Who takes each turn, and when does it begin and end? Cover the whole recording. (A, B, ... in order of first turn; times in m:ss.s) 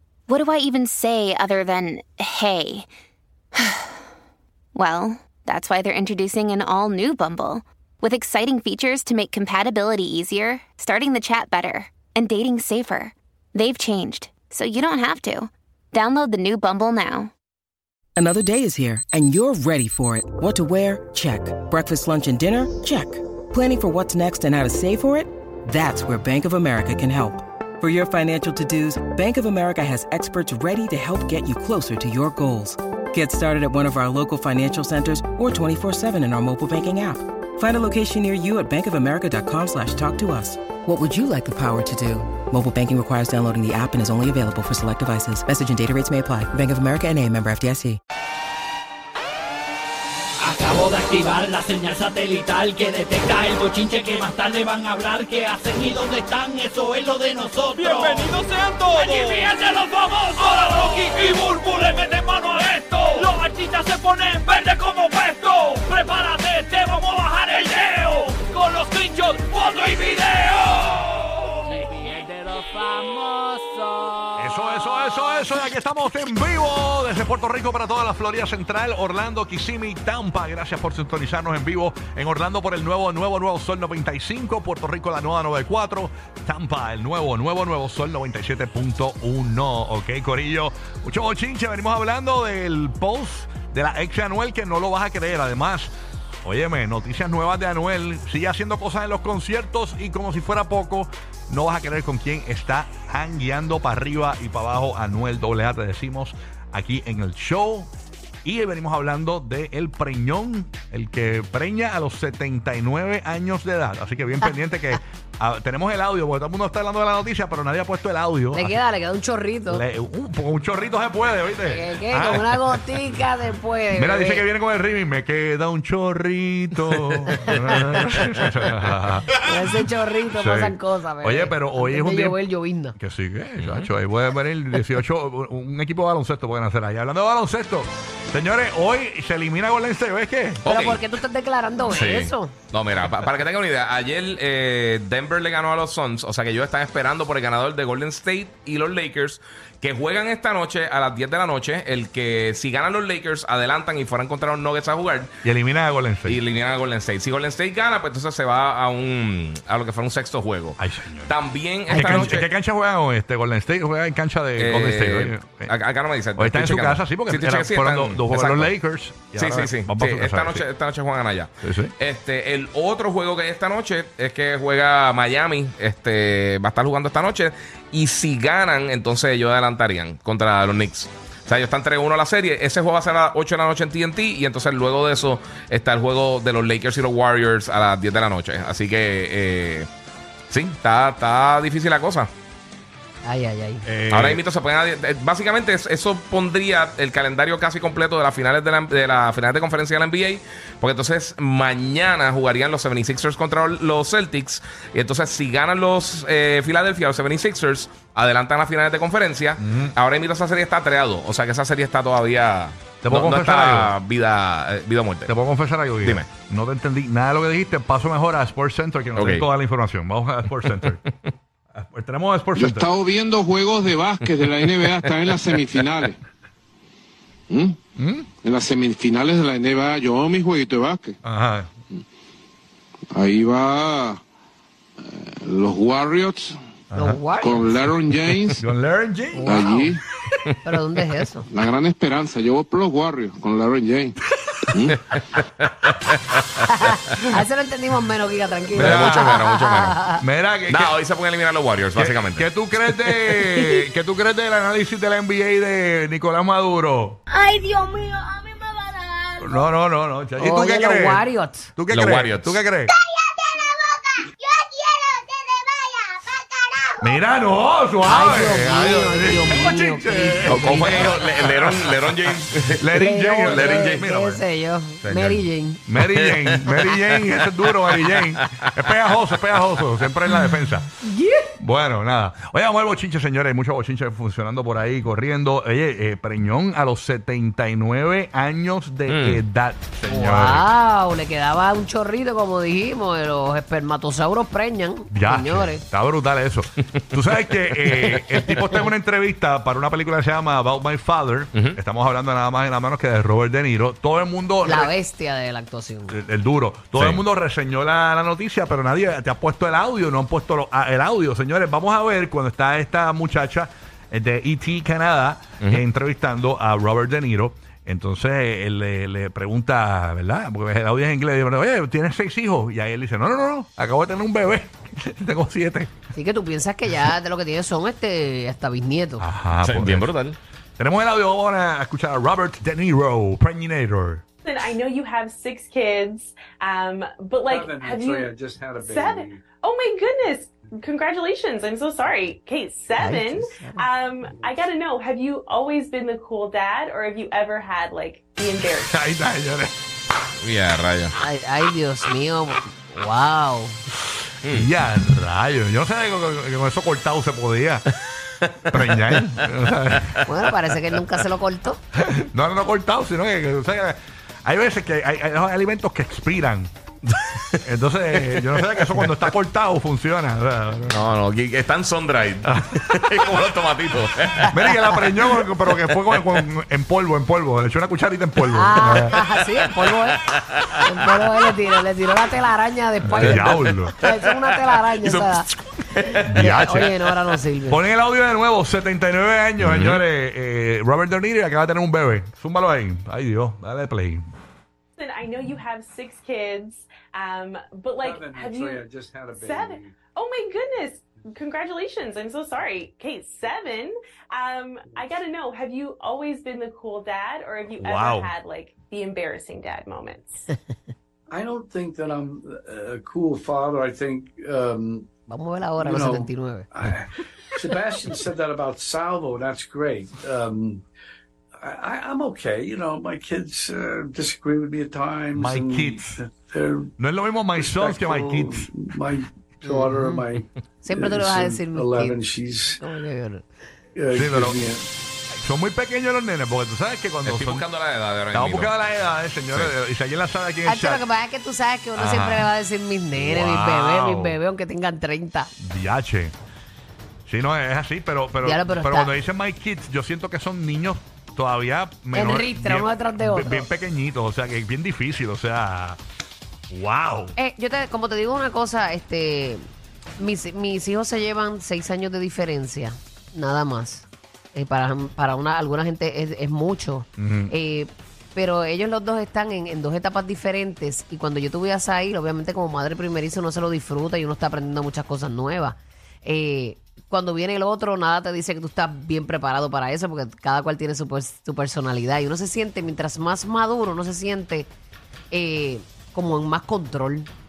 0:00.3-0:02.9 A
0:03.6-0:04.0 A
0:04.8-0:17.3 A
0:18.2-0:48.0 B
0:50.4-1:14.6 C
1:14.4-1:35.9 D
1:36.4-1:47.9 D
1:48.4-1:58.8 D
1:58.5-1:59.8 E
1:59.7-2:02.8 D
2:01.7-2:04.4 E
2:03.9-2:09.3 D
2:07.3-2:07.8 E
2:09.4-2:13.0 E
2:10.4-2:12.4 D
2:13.0-2:20.6 D
2:13.6-2:13.9 F
2:20.6-2:21.0 F
2:20.7-2:22.5 E
2:21.9-2:35.3 F
2:35.4-2:36.4 D
2:36.3-2:42.5 F
2:40.8-2:41.3 D
2:41.9-2:45.7 D
2:41.9-2:42.4 E
2:44.6-2:48.7 F
2:46.4-2:50.7 D
2:49.4-3:09.9 F
2:51.6-2:51.9 D
3:10.5-3:12.3 F
3:13.2-3:13.8 E
3:13.8-3:14.4 D
3:14.1-3:35.3 F
3:29.6-3:30.0 D
3:33.0-3:34.0 D
3:35.3-3:41.0 D
3:36.0-3:36.3 F
3:39.2-3:39.5 F
3:41.8-3:42.9 D
3:42.7-3:46.1 G
3:44.8-3:45.6 F
3:48.0-3:48.3 D
3:48.4-3:51.1 G
3:51.2-3:51.7 D
3:53.1-3:54.2 G
3:55.4-3:56.5 G
3:56.9-3:57.2 D
3:57.0-3:57.6 E
3:57.4-3:58.5 G
3:58.6-3:59.9 D
3:59.3-3:59.9 E
3:59.5-3:59.9 G
4:00.6-4:01.5 E
4:01.5-4:04.1 G
4:04.9-4:06.5 F
4:06.8-4:10.2 E
4:08.7-4:09.4 D
4:08.8-4:10.0 F
4:10.1-4:11.0 D
4:10.7-4:12.5 F
4:12.0-4:17.2 D
4:17.3-4:19.4 H
4:19.4-4:22.9 D
4:20.4-4:21.7 E
4:21.9-4:22.6 F
4:23.1-4:26.9 H
4:27.0-4:34.4 D
4:28.0-4:31.1 E
4:30.5-4:32.9 F
4:32.9-4:35.8 E
4:33.5-4:34.0 F
4:35.0-4:40.9 D
4:36.1-4:37.4 F
4:37.9-4:38.2 F
4:41.0-4:41.5 E
4:41.6-4:50.6 D
4:49.1-4:49.4 F
4:50.1-4:55.8 E
4:55.1-5:04.9 D
5:04.6-5:06.2 E
5:06.1-5:25.9 D
5:07.0-5:07.2 F
5:26.1-5:29.2 E
5:29.2-5:30.1 D
5:29.6-5:30.4 F
5:30.8-5:34.2 D
5:34.4-5:49.0 I
5:37.4-5:39.4 J
5:43.0-5:43.8 E
5:44.4-5:44.7 J
5:48.9-5:49.7 D
5:50.4-5:51.1 F
5:51.2-5:53.8 E
5:54.5-5:57.9 D
5:58.7-6:00.2 D
5:58.7-5:59.3 F
6:00.3-6:01.8 E
6:02.0-6:06.7 D
6:07.1-6:07.6 F
6:07.6-6:11.0 D
6:08.3-6:09.1 F
6:10.9-6:16.4 F
6:12.4-6:12.8 D
6:14.5-6:19.2 D
6:18.6-6:20.2 E
6:19.9-6:21.3 F
6:20.8-6:25.4 E
6:23.1-6:24.0 D
6:23.1-6:27.0 F
6:26.3-6:26.9 D
6:26.4-6:27.8 E
6:27.7-6:34.3 D
6:29.6-6:30.0 F
6:35.0-6:50.4 I
6:38.0-6:40.0 J
6:47.8-6:48.3 D
6:51.3-6:55.1 J
6:55.3-6:56.7 E
6:55.8-7:00.8 J
7:01.6-7:06.9 J
7:05.4-7:06.2 D
7:07.0-7:08.7 D
7:07.6-7:12.8 J
7:09.6-7:10.2 E
7:10.8-7:12.2 E
7:12.8-7:13.5 E
7:14.0-7:14.9 J
7:14.1-7:14.7 D
7:15.3-7:17.7 D
7:17.2-7:18.7 F
7:18.3-7:21.0 D
7:20.6-7:25.5 E
7:22.0-7:22.5 D
7:23.1-7:24.4 D
7:25.6-7:26.4 D
7:27.3-7:36.0 D
7:28.4-7:29.1 E
7:32.1-7:33.7 E
7:36.7-7:37.4 D
7:37.4-7:39.6 E
7:40.2-8:04.7 E
7:47.2-7:47.5 D
8:05.3-8:07.3 E